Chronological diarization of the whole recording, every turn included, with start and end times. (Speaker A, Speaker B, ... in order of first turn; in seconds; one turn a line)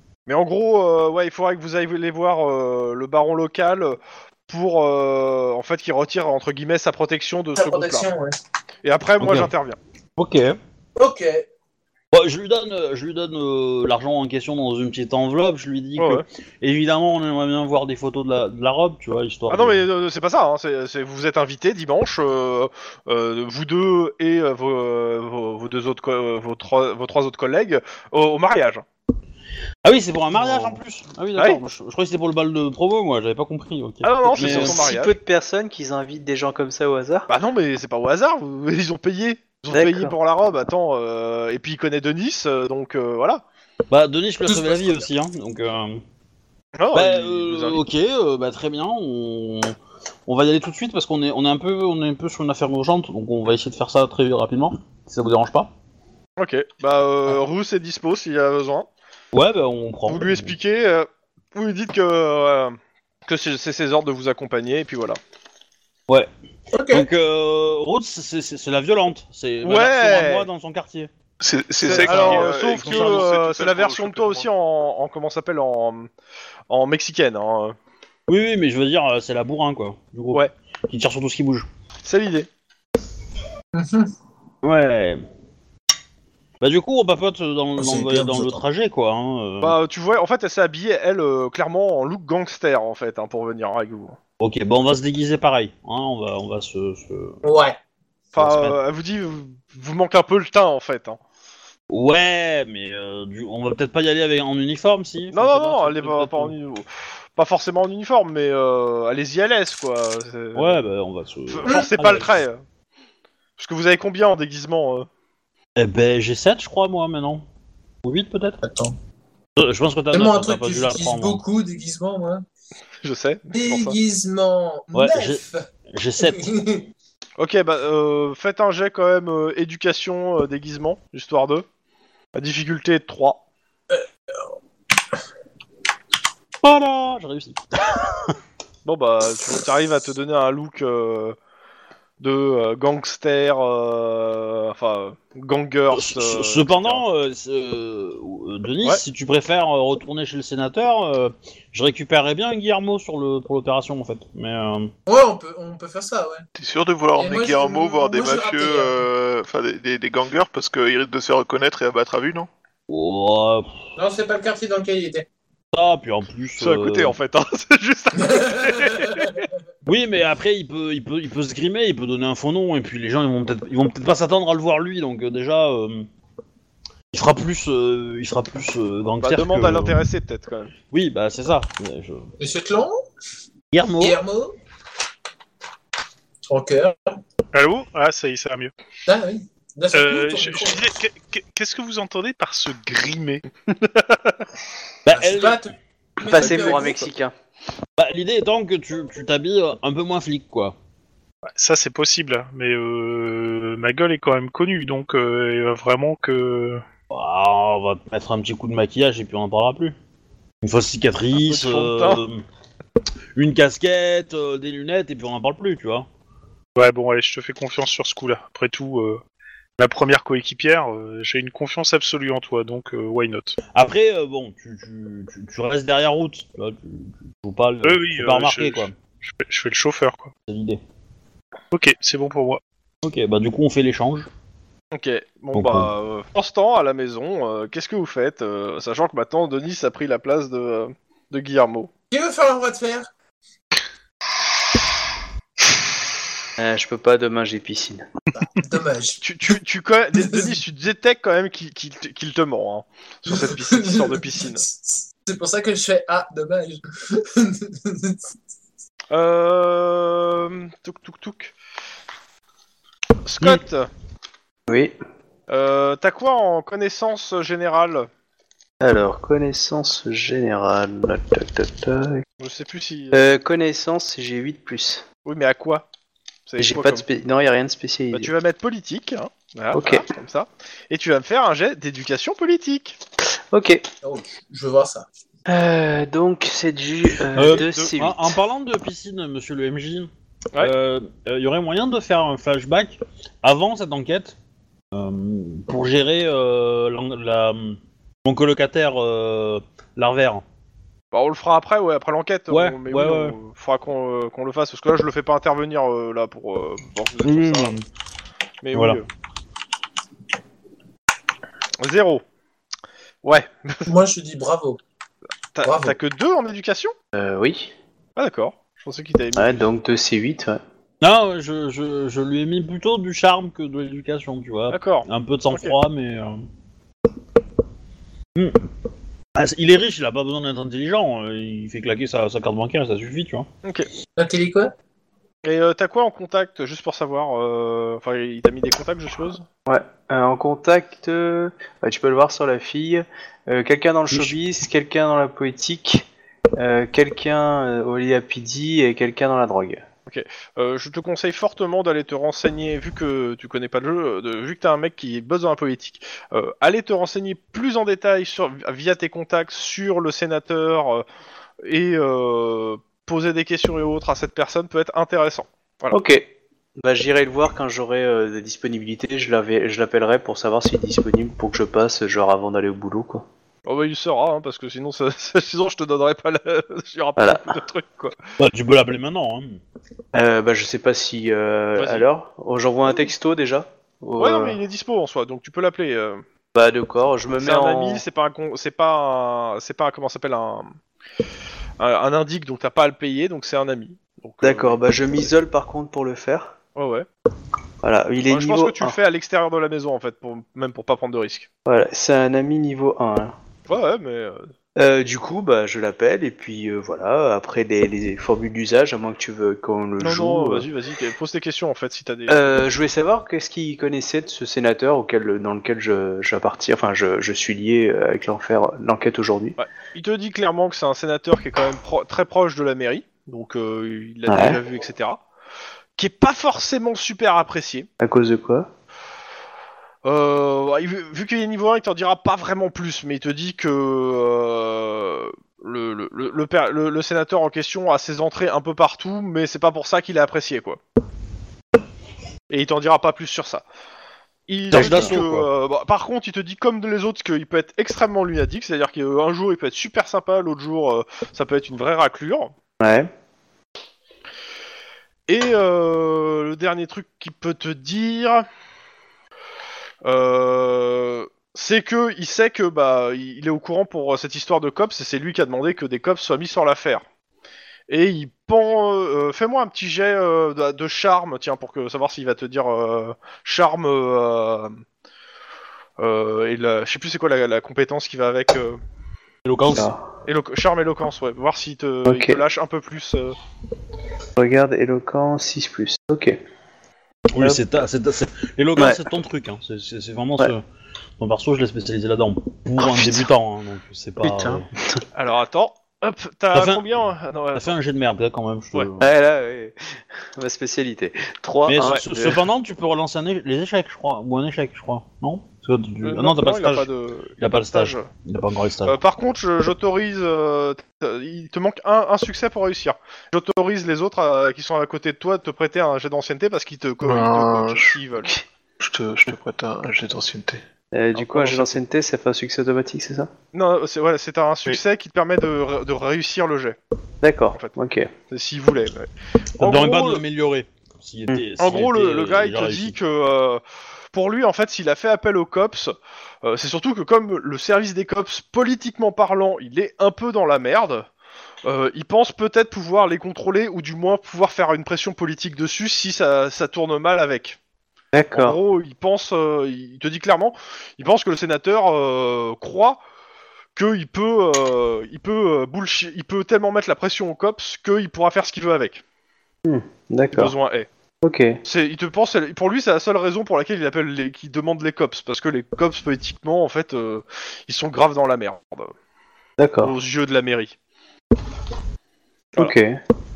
Speaker A: 0.3-8.1
Speaker B: 7.5-8.4
Speaker A: 8.8-9.8
Speaker C: 9.2-9.5
Speaker C: 10.2-10.6
Speaker B: 11.0-11.4
Speaker C: 12.1-19.8
Speaker A: 16.0-16.2
Speaker A: 19.5-28.8
Speaker C: 29.8-34.8
Speaker A: 30.4-30.8
Speaker A: 34.0-35.1
Speaker D: 34.4-37.3
Speaker A: 37.3-43.4
Speaker D: 39.7-40.1
Speaker C: 43.9-46.0
Speaker B: 44.5-45.0
Speaker A: 46.8-47.8
Speaker C: 46.9-49.7
Speaker C: 50.3-55.7
Speaker A: 56.4-58.9
Speaker C: 59.3-60.5
Speaker A: 60.1-65.2
Speaker B: 66.7-67.1
Speaker C: 66.9-71.1
Speaker A: 69.6-70.5
Speaker E: 71.4-74.5
Speaker A: 71.8-76.1
Speaker C: 71.8-73.3
Speaker A: 76.7-77.8
Speaker C: 78.3-81.7
Speaker A: 82.0-82.5
Speaker B: 83.7-84.1
Speaker C: 84.6-85.2
Speaker C: 86.6-89.8
Speaker B: 87.8-88.5
Speaker A: 89.6-94.2
Speaker C: 94.4-97.4
Speaker B: 97.4-97.8
Speaker C: 98.3-98.8
Speaker A: 98.3-101.2
Speaker C: 101.9-106.5
Speaker A: 105.3-110.8
Speaker C: 110.5-112.3
Speaker A: 111.5-112.6
Speaker A: 113.6-115.1
Speaker C: 115.8-117.4
Speaker C: 118.0-118.6
Speaker B: 118.6-118.9
Speaker C: 119.6-121.4
Speaker B: 120.1-122.4
Speaker A: 123.0-124.0
Speaker B: 123.5-125.6
Speaker C: 124.9-126.5
Speaker B: 126.2-126.8
Speaker A: 127.4-131.7
Speaker A: 132.3-133.4
Speaker C: 136.6-138.3
Speaker A: 138.8-141.3
Speaker A: 142.2-147.0
Speaker C: 145.9-154.9
Speaker B: 155.1-156.4
Speaker E: 156.6-162.5
Speaker B: 157.2-159.0
Speaker C: 162.9-163.7
Speaker B: 164.0-165.2
Speaker C: 165.7-167.1
Speaker A: 166.6-169.5
Speaker B: 168.2-169.2
Speaker C: 169.8-176.1
Speaker C: 177.1-180.0
Speaker A: 179.2-180.7
Speaker C: 180.9-182.3
Speaker B: 182.4-183.0
Speaker C: 183.7-184.2
Speaker B: 184.0-184.6
Speaker B: 186.5-187.2
Speaker F: 187.5-188.7
Speaker B: 189.1-190.9
Speaker F: 189.9-193.4
Speaker C: 195.0-195.6
Speaker B: 195.1-197.0
Speaker D: 196.2-197.3
Speaker A: 196.3-197.1
Speaker C: 198.0-200.8
Speaker F: 201.5-206.8
Speaker C: 207.1-209.9
Speaker C: 210.6-212.4
Speaker A: 211.4-212.2
Speaker C: 213.3-216.1
Speaker F: 216.7-219.2
Speaker F: 219.8-223.6
Speaker C: 223.7-228.9
Speaker F: 227.8-230.3
Speaker C: 230.5-230.8
Speaker F: 231.7-232.6
Speaker C: 233.0-234.3
Speaker A: 234.9-241.9
Speaker C: 235.5-235.9
Speaker B: 242.1-243.1
Speaker D: 246.6-248.1
Speaker B: 248.3-249.2
Speaker A: 249.2-254.6
Speaker B: 250.1-250.5
Speaker B: 253.3-258.2
Speaker A: 259.1-261.5
Speaker A: 263.2-263.9
Speaker D: 264.7-264.9
Speaker A: 265.5-268.1
Speaker D: 268.8-272.2
Speaker A: 272.4-273.3
Speaker D: 273.1-275.0
Speaker A: 275.2-275.9
Speaker A: 276.5-277.0
Speaker D: 276.6-278.3
Speaker A: 278.1-283.0
Speaker D: 279.7-280.0
Speaker D: 283.5-283.8
Speaker B: 284.0-285.1
Speaker D: 285.5-288.3
Speaker C: 287.4-294.4
Speaker A: 287.4-287.9
Speaker C: 294.9-300.4
Speaker A: 301.1-307.7
Speaker C: 302.5-303.4
Speaker C: 307.2-307.8
Speaker A: 308.6-309.0
Speaker C: 308.7-309.0
Speaker A: 311.8-312.2
Speaker A: 313.2-313.9
Speaker B: 313.9-314.8
Speaker A: 315.5-316.9
Speaker B: 315.6-316.0
Speaker D: 317.1-317.7
Speaker A: 318.1-319.6
Speaker D: 319.4-320.6
Speaker C: 321.0-326.4
Speaker A: 324.7-325.7
Speaker C: 329.4-333.5
Speaker B: 334.2-334.7
Speaker A: 335.4-339.4
Speaker D: 339.6-349.8
Speaker C: 344.1-344.4
Speaker A: 350.1-361.0
Speaker A: 361.6-366.0
Speaker D: 365.9-373.2
Speaker A: 373.6-378.2
Speaker D: 377.2-377.5
Speaker C: 378.4-379.6
Speaker D: 380.1-384.6
Speaker A: 381.8-382.0
Speaker A: 384.2-386.2
Speaker D: 386.5-388.0
Speaker A: 387.3-390.7
Speaker A: 391.8-395.3
Speaker D: 394.4-396.5
Speaker A: 396.8-397.1
Speaker D: 397.8-398.9
Speaker A: 398.3-401.5
Speaker D: 401.6-403.3
Speaker A: 403.7-404.5
Speaker D: 404.8-410.7
Speaker A: 410.0-412.6
Speaker D: 412.3-419.6
Speaker A: 419.6-425.2
Speaker D: 424.3-424.6
Speaker A: 426.0-427.9
Speaker D: 428.0-428.7
Speaker A: 430.0-440.8
Speaker A: 442.5-443.6
Speaker A: 444.5-452.5
Speaker C: 444.7-445.5
Speaker D: 444.7-445.2
Speaker D: 452.8-453.1
Speaker A: 455.3-458.4
Speaker A: 460.0-467.0
Speaker A: 467.9-474.8
Speaker A: 476.0-478.8
Speaker C: 479.4-479.9
Speaker D: 479.7-480.0
Speaker A: 480.2-483.4
Speaker D: 482.0-482.4
Speaker D: 484.4-486.4
Speaker C: 487.3-490.6
Speaker D: 487.4-487.6
Speaker D: 488.8-489.0
Speaker C: 491.2-494.7
Speaker D: 492.8-493.3
Speaker D: 494.2-495.0
Speaker A: 495.1-497.6
Speaker C: 496.5-496.8
Speaker C: 497.5-499.1
Speaker D: 499.0-502.4
Speaker C: 501.6-509.0
Speaker A: 506.0-508.1
Speaker A: 508.9-518.3
Speaker E: 517.0-518.3
Speaker E: 518.8-520.6
Speaker D: 520.9-523.3
Speaker A: 521.1-521.8
Speaker A: 523.5-526.8
Speaker D: 527.2-528.1
Speaker A: 528.3-530.2
Speaker C: 529.6-533.0
Speaker A: 531.6-533.6
Speaker A: 534.1-541.1
Speaker A: 541.6-547.6
Speaker D: 548.1-548.6
Speaker A: 548.3-553.0
Speaker A: 553.7-559.0
Speaker D: 559.6-560.5
Speaker A: 560.3-560.9
Speaker D: 561.2-561.6
Speaker A: 561.6-568.9
Speaker D: 569.6-569.9
Speaker A: 569.8-570.7
Speaker D: 572.5-573.0